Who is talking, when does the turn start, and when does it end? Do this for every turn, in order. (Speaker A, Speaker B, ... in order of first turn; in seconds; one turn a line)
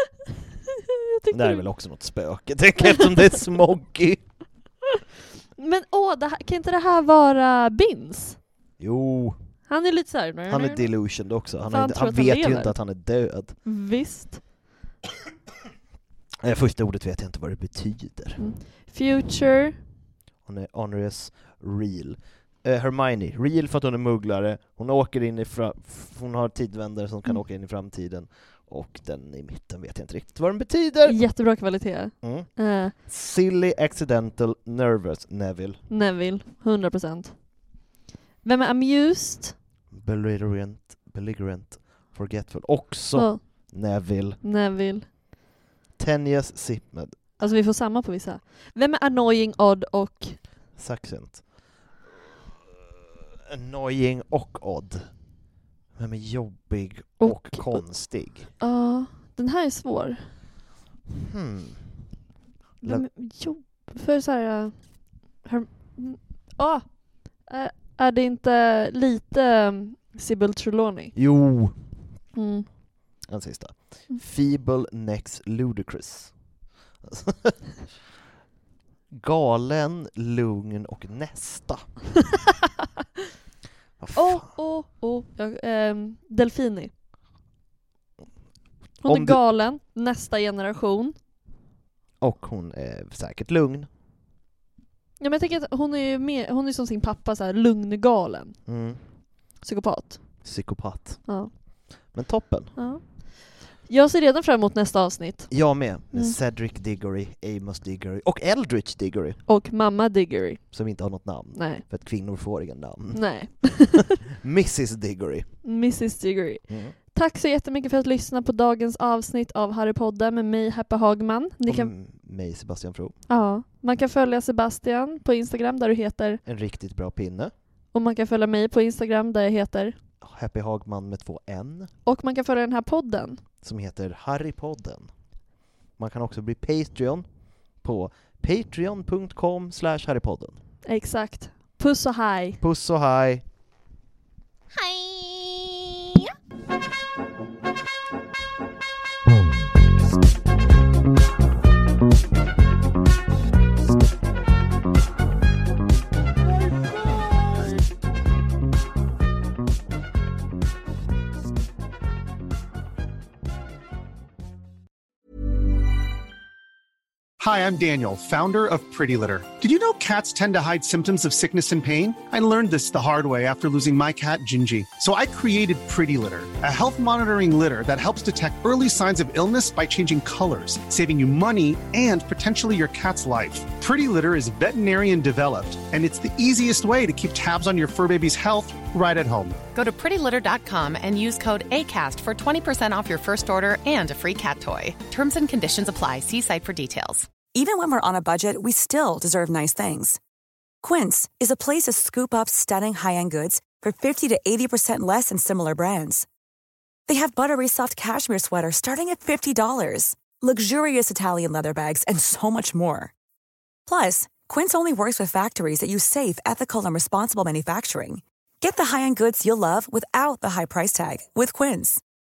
Speaker A: 1.0-1.6
Speaker B: 1.3-4.2
Speaker A: 2.8-3.2
Speaker A: 5.6-8.4
Speaker B: 8.8-9.4
Speaker A: 9.7-10.9
Speaker B: 10.5-13.5
Speaker A: 11.7-12.7
Speaker A: 13.6-14.5
Speaker B: 16.4-18.4
Speaker A: 18.4-19.8
Speaker B: 20.4-31.2
Speaker A: 31.0-32.9
Speaker B: 32.2-32.5
Speaker B: 33.0-35.8
Speaker A: 35.9-37.4
Speaker A: 38.4-39.5
Speaker B: 39.9-44.4
Speaker A: 43.1-43.7
Speaker A: 44.4-45.1
Speaker B: 46.0-47.2
Speaker A: 47.4-50.4
Speaker B: 50.8-51.6
Speaker B: 53.5-55.1
Speaker B: 55.9-58.5
Speaker A: 57.2-57.8
Speaker A: 58.6-60.3
Speaker B: 61.2-61.9
Speaker A: 62.8-71.1
Speaker B: 71.2-71.8
Speaker A: 72.3-72.7
Speaker B: 73.2-76.3
Speaker B: 77.0-77.6
Speaker B: 79.1-81.8
Speaker B: 84.0-84.5
Speaker A: 84.1-86.9
Speaker A: 89.0-91.2
Speaker B: 89.0-89.4
Speaker B: 92.2-93.9
Speaker A: 95.2-98.6
Speaker B: 98.7-99.0
Speaker A: 99.6-100.2
Speaker B: 100.4-101.3
Speaker B: 102.1-102.7
Speaker A: 102.8-105.6
Speaker B: 105.5-109.4
Speaker A: 109.5-110.6
Speaker B: 110.7-115.5
Speaker A: 111.5-111.8
Speaker A: 113.1-114.2
Speaker A: 115.6-121.9
Speaker B: 116.7-116.9
Speaker B: 121.7-123.1
Speaker A: 123.3-126.4
Speaker B: 126.4-127.5
Speaker A: 127.9-129.9
Speaker B: 130.2-131.9
Speaker A: 132.1-133.4
Speaker B: 133.6-135.1
Speaker B: 136.0-137.2
Speaker B: 137.8-140.6
Speaker A: 140.8-142.6
Speaker B: 142.6-143.4
Speaker A: 144.7-146.3
Speaker C: 167.4-189.6
Speaker D: 189.7-197.4
Speaker E: 197.4-200.2
Speaker E: 200.8-206.3
Speaker E: 207.1-213.1
Speaker E: 213.9-222.0